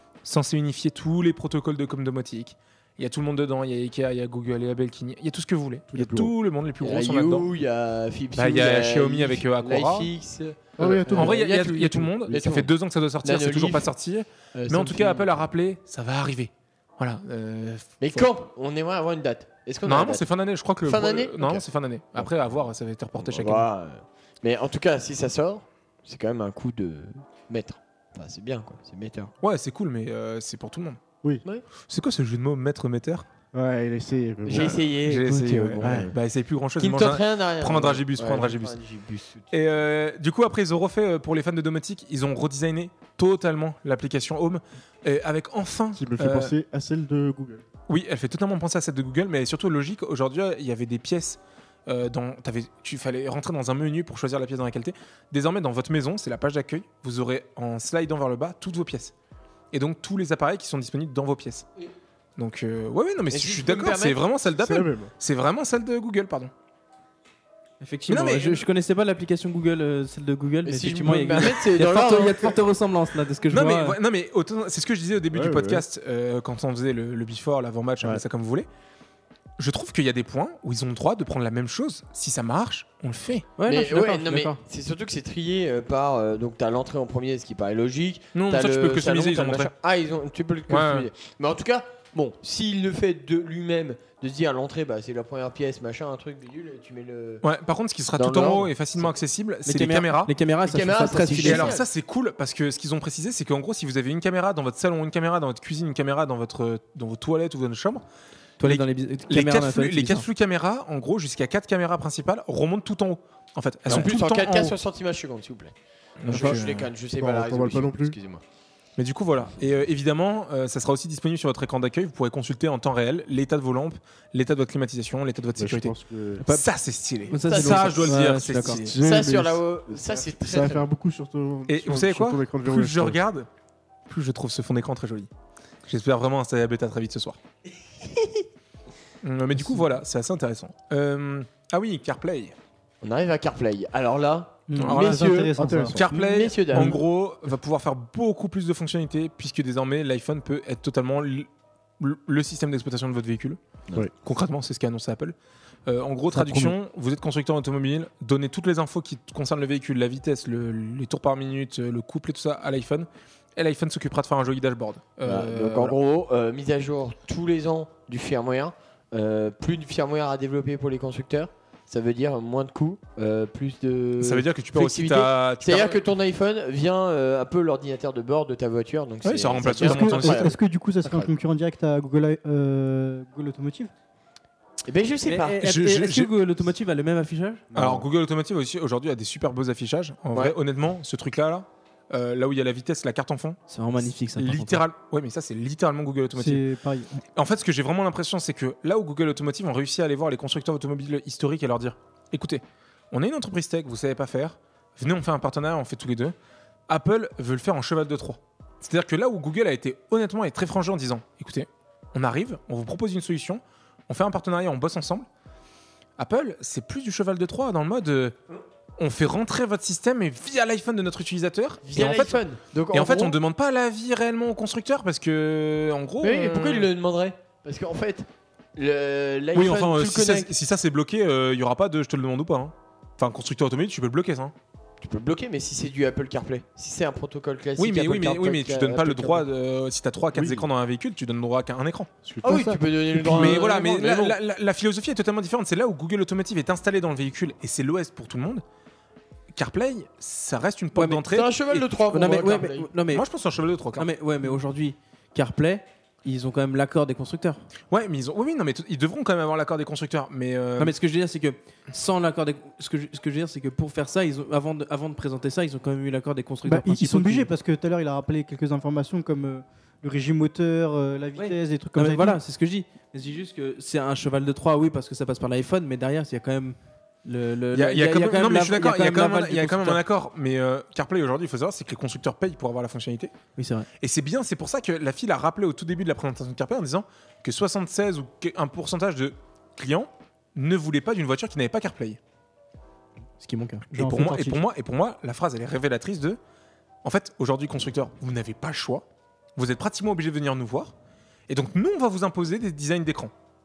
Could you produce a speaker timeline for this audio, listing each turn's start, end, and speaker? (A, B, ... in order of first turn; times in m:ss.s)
0:00.2-0:07.5 A
0:05.9-0:06.3 B
0:06.8-0:12.7 C
0:08.3-0:10.1 A
0:10.8-0:11.4 B
0:11.1-0:18.3 A
0:13.2-0:13.9 C
0:14.5-0:15.3 C
0:18.0-0:20.3 C
0:19.8-0:23.7 A
0:20.8-0:21.6 C
0:23.2-0:29.3 C
0:29.4-0:31.0 A
0:31.9-0:33.3 A
0:33.5-0:34.8 B
0:34.4-0:36.1 C
0:34.5-0:38.8 A
0:35.8-0:36.1 B
0:36.8-0:39.5 C
0:39.5-0:46.5 A
0:46.0-0:47.6 B
0:47.9-0:59.1 A
0:59.7-1:01.7 A
1:02.4-1:06.5 A
1:03.3-1:04.2 C
1:04.5-1:05.1 B
1:07.8-1:14.0 D
1:08.1-1:08.6 A
1:10.6-1:12.6 C
1:13.5-1:18.7 A
1:15.3-1:15.8 B
1:19.6-1:23.5 A
1:23.6-1:24.6 D
1:23.7-1:37.4 C
1:28.3-1:29.7 A
1:30.7-1:31.1 A
1:37.4-1:40.3 A
1:38.2-1:39.1 C
1:39.7-1:41.8 D
1:40.6-1:41.8 C
1:41.4-1:48.0 A
1:48.6-1:50.2 D
1:48.6-1:54.8 A
1:53.9-1:55.7 C
1:56.2-1:56.9 A
1:56.3-1:58.4 C
1:56.3-1:56.6 B
1:57.2-1:58.2 B
1:59.0-2:09.0 A
2:05.6-2:06.4 B
2:07.3-2:08.8 D
2:07.3-2:10.9 C
2:08.7-2:13.2 B
2:11.7-2:13.5 A
2:14.1-2:15.3 A
2:15.9-2:17.4 A
2:19.2-2:22.6 A
2:23.0-2:27.0 C
2:24.7-2:26.0 E
2:24.8-2:25.4 A
2:25.5-2:26.1 B
2:25.9-2:35.4 A
2:35.9-2:46.0 A
2:36.4-2:36.6 B
2:45.2-3:00.5 C
2:54.2-2:56.0 A
2:59.2-3:00.5 A
2:59.8-3:03.9 E
3:04.8-3:05.6 C
3:05.2-3:07.7 D
3:05.6-3:06.3 A
3:07.7-3:08.1 B
3:07.8-3:13.6 A
3:13.7-3:14.8 D
3:14.4-3:16.6 A
3:16.4-3:17.2 E
3:17.4-3:26.4 A
3:26.9-3:35.3 A
3:36.2-3:38.4 A
3:39.0-3:42.4 A
3:41.8-3:43.4 C
3:42.9-3:46.9 A
3:46.2-3:50.5 C
3:49.5-3:54.5 A
3:55.0-3:59.5 C
3:57.8-4:02.1 A
4:00.3-4:00.7 B
4:02.2-4:02.7 B
4:02.4-4:03.6 E
4:02.4-4:04.4 C
4:03.2-4:08.6 A
4:09.5-4:11.9 A
4:11.0-4:11.2 D
4:11.3-4:12.9 C
4:12.1-4:13.3 D
4:13.1-4:14.1 A
4:14.0-4:17.6 D
4:17.9-4:20.9 A
4:20.8-4:27.5 D
4:26.6-4:32.4 E
4:31.4-4:40.0 D
4:37.7-4:43.3 A
4:43.6-4:43.9 D
4:44.0-4:52.2 A
4:53.4-4:53.8 D
4:53.9-4:56.4 A
4:53.9-4:54.6 E
4:57.0-4:59.0 A
4:59.6-5:00.9 A
5:01.5-5:03.3 A